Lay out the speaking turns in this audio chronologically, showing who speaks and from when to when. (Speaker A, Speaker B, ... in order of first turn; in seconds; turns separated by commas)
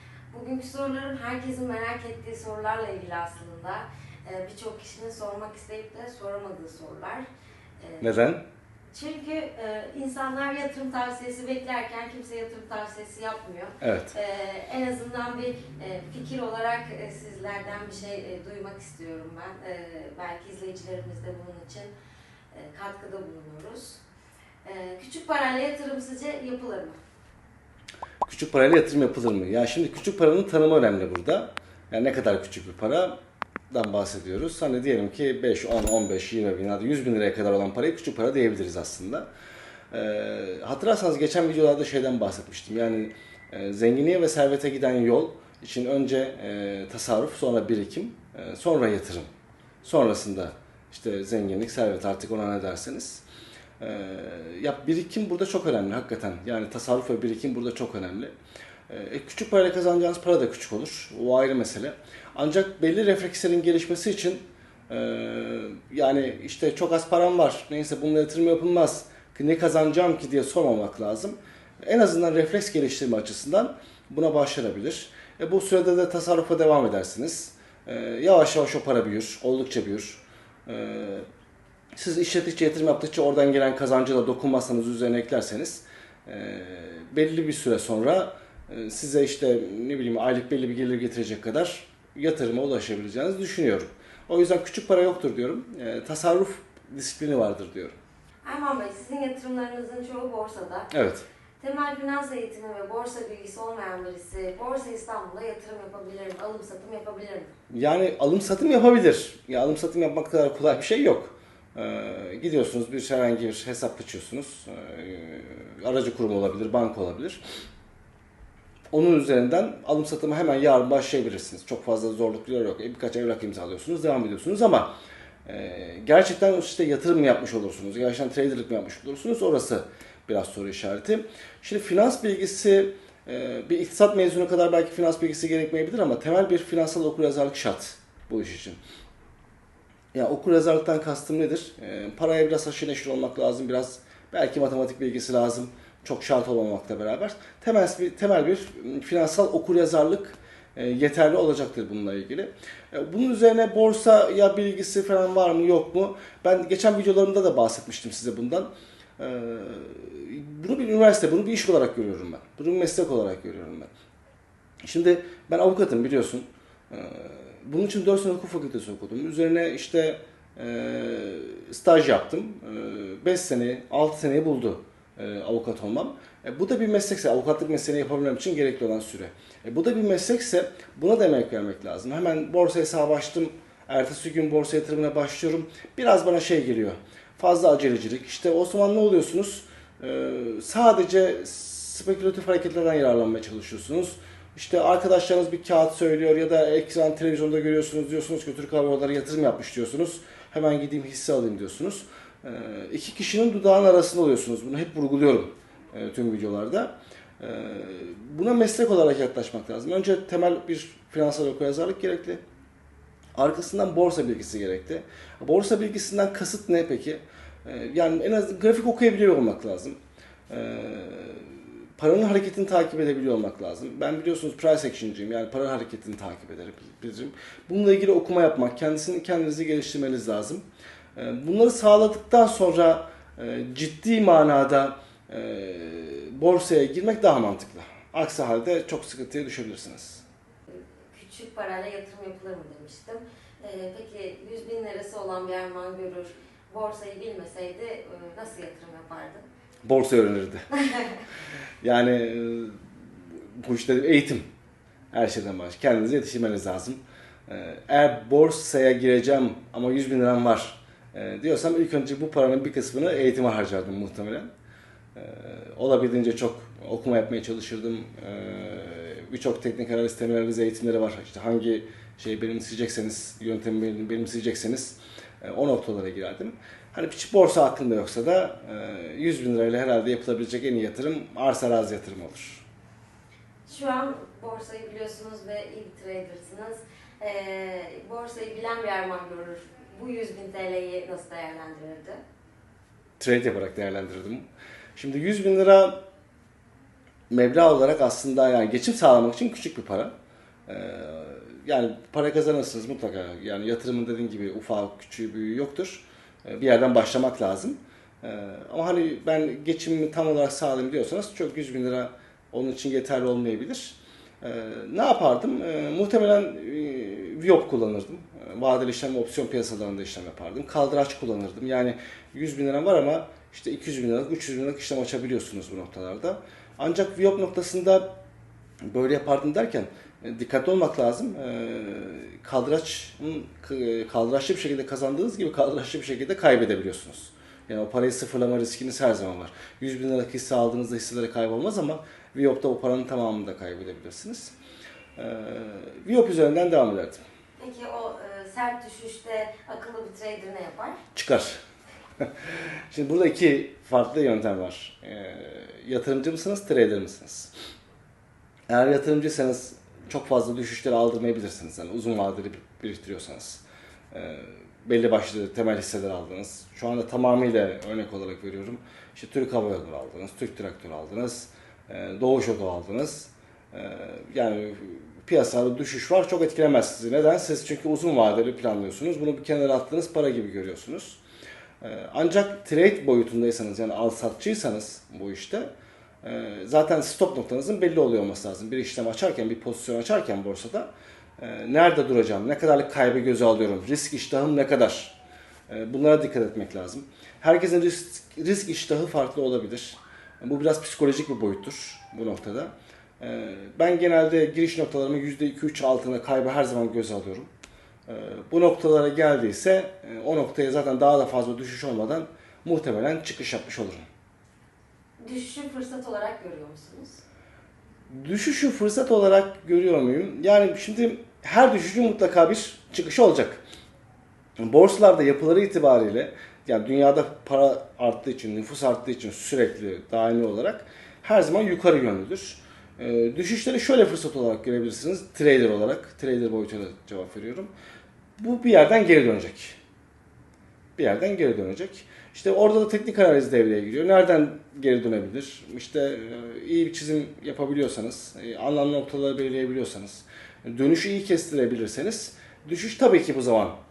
Speaker A: 0.3-7.3, Speaker A: 7.8-8.1, Speaker B: 8.0-8.4, Speaker A: 8.9-21.9, Speaker B: 13.8-14.1, Speaker A: 22.5-24.0, Speaker A: 24.6-27.0, Speaker B: 28.2-33.1, Speaker B: 33.7-39.3, Speaker B: 39.9-49.3, Speaker B: 49.8-53.2, Speaker B: 53.8-58.3, Speaker B: 58.9-81.2, Speaker B: 82.0-98.0, Speaker A: 98.4-100.9, Speaker B: 100.9-101.2, Speaker A: 101.6-107.5, Speaker B: 107.7-117.4, Speaker B: 118.9-124.9, Speaker B: 125.5-138.8, Speaker B: 140.1-163.9, Speaker B: 164.8-212.4, Speaker B: 213.3-220.0, Speaker B: 220.5-230.6, Speaker B: 231.2-240.2, Speaker A: 240.7-249.4, Speaker B: 249.8-250.7, Speaker A: 250.7-251.2, Speaker B: 251.8-252.8, Speaker B: 253.4-254.4, Speaker B: 255.1-264.5, Speaker B: 265.1-282.6, Speaker A: 283.7-292.2, Speaker B: 293.2-294.4, Speaker B: 294.9-295.9, Speaker B: 297.3-300.1, Speaker B: 300.7-328.1, Speaker B: 328.9-344.5, Speaker B: 345.1-347.2, Speaker A: 347.6-351.0, Speaker B: 351.1-351.6, Speaker B: 352.2-357.5, Speaker B: 358.7-381.2, Speaker B: 381.8-385.7, Speaker B: 386.2-395.1, Speaker B: 395.7-407.5, Speaker B: 408.1-414.1, Speaker A: 415.2-417.2, Speaker B: 418.1-423.6, Speaker B: 424.6-437.7, Speaker B: 438.4-439.8, Speaker B: 441.0-453.8